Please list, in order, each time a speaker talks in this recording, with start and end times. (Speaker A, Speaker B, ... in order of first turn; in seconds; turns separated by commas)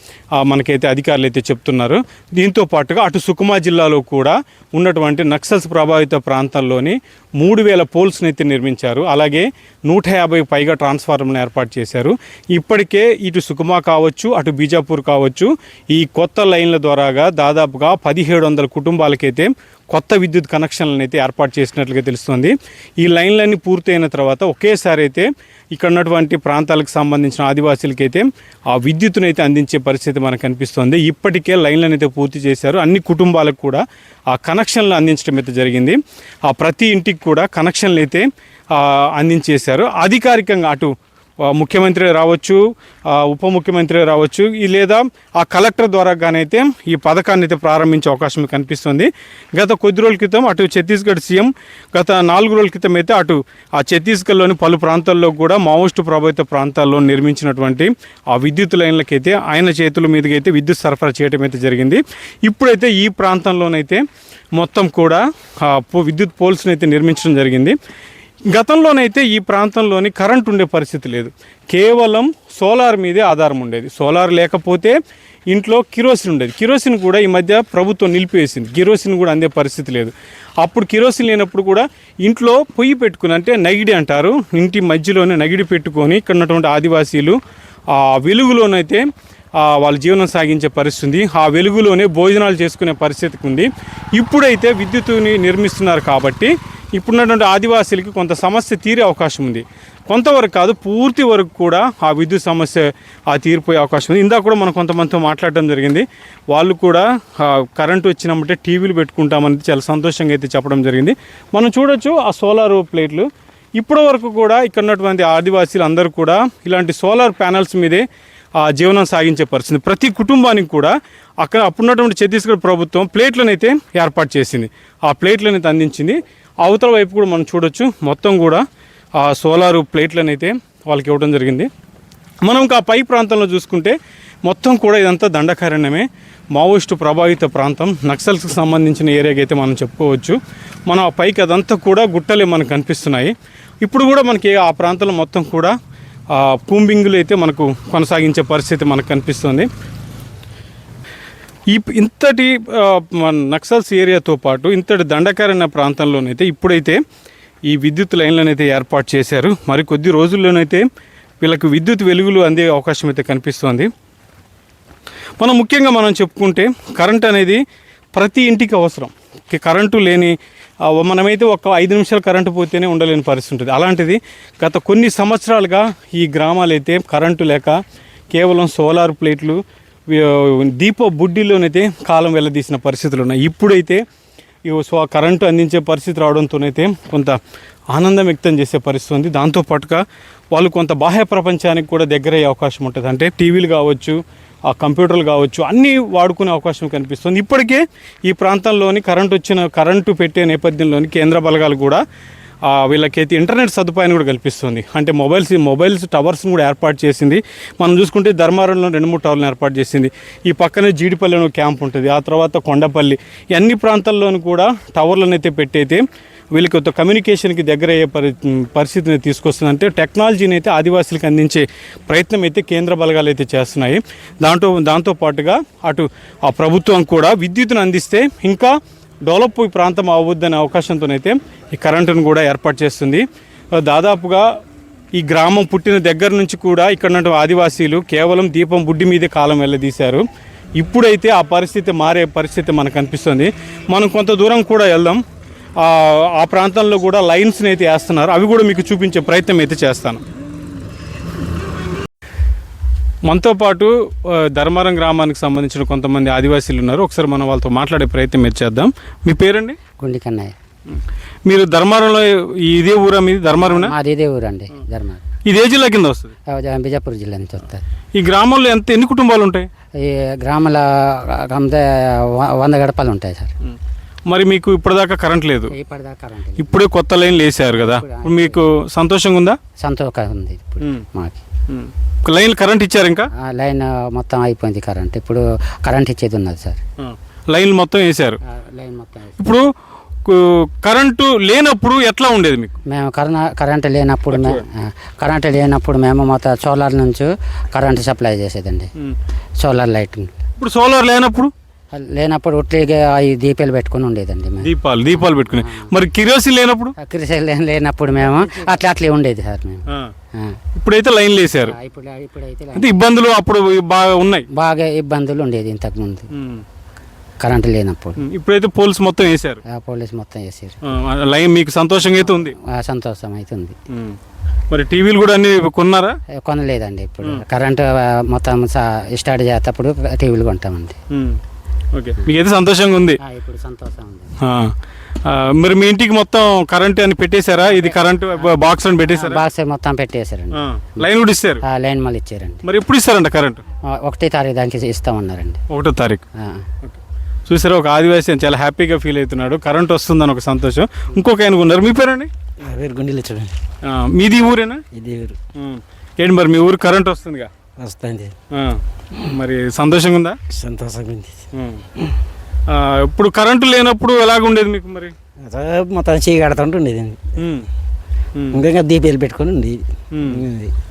Speaker A: 0.4-40.9, Speaker A: 41.5-64.0, Speaker A: 64.5-67.8, Speaker A: 68.5-75.0, Speaker A: 75.5-87.4, Speaker A: 87.9-89.0, Speaker A: 89.6-113.3, Speaker A: 113.8-118.0, Speaker A: 118.6-128.6, Speaker A: 129.2-131.7, Speaker A: 132.4-145.8, Speaker A: 146.3-149.7, Speaker A: 151.7-157.0, Speaker A: 157.7-160.9, Speaker A: 161.4-163.9, Speaker A: 165.4-167.6, Speaker A: 168.1-170.3, Speaker A: 170.9-177.8, Speaker A: 178.3-184.0, Speaker A: 184.7-187.4, Speaker A: 187.9-202.0, Speaker A: 202.7-228.7, Speaker A: 229.2-233.2, Speaker A: 233.8-234.5, Speaker A: 235.2-240.2, Speaker A: 240.8-245.2, Speaker A: 245.8-250.2, Speaker A: 253.3-259.8, Speaker B: 260.0-260.5, Speaker A: 260.9-263.9, Speaker B: 263.6-265.3, Speaker A: 265.5-266.3, Speaker B: 266.5-267.8, Speaker A: 268.2-269.7, Speaker B: 270.0-273.5, Speaker A: 274.3-275.7, Speaker B: 275.7-276.9, Speaker A: 276.6-279.6, Speaker B: 277.7-278.7, Speaker B: 279.8-281.4, Speaker A: 281.7-283.3, Speaker B: 283.5-286.8, Speaker A: 287.0-288.4, Speaker B: 288.5-289.5, Speaker A: 289.4-289.7, Speaker A: 290.2-292.8, Speaker B: 292.9-298.9, Speaker A: 294.3-294.6, Speaker B: 299.6-300.3, Speaker A: 300.6-301.5, Speaker B: 301.9-305.9, Speaker A: 304.6-307.0, Speaker B: 307.0-309.9, Speaker A: 310.8-311.8, Speaker B: 311.7-313.0, Speaker A: 312.8-314.5, Speaker B: 314.6-316.3, Speaker A: 316.3-316.6, Speaker B: 317.4-318.2, Speaker A: 318.2-319.6, Speaker B: 319.7-320.8, Speaker A: 320.9-322.5, Speaker B: 322.2-323.8, Speaker A: 323.9-324.2, Speaker A: 324.7-326.1, Speaker B: 326.4-331.0, Speaker A: 331.1-331.4, Speaker A: 331.9-333.2, Speaker B: 333.2-334.4, Speaker A: 334.4-334.7, Speaker A: 335.2-339.4, Speaker B: 337.7-341.0, Speaker A: 340.6-341.6, Speaker B: 341.6-342.6, Speaker A: 342.6-343.6, Speaker B: 343.9-345.6, Speaker A: 345.7-346.2, Speaker B: 346.4-346.6, Speaker A: 346.8-352.3, Speaker C: 352.6-353.5, Speaker A: 353.8-354.8, Speaker C: 354.9-355.4, Speaker A: 355.6-357.5, Speaker C: 357.8-358.3, Speaker A: 358.5-360.4, Speaker C: 360.5-361.4, Speaker A: 361.5-361.9, Speaker A: 362.7-365.1, Speaker C: 365.4-367.3, Speaker A: 367.4-367.7, Speaker A: 368.4-368.6, Speaker C: 368.5-370.7, Speaker A: 370.1-370.4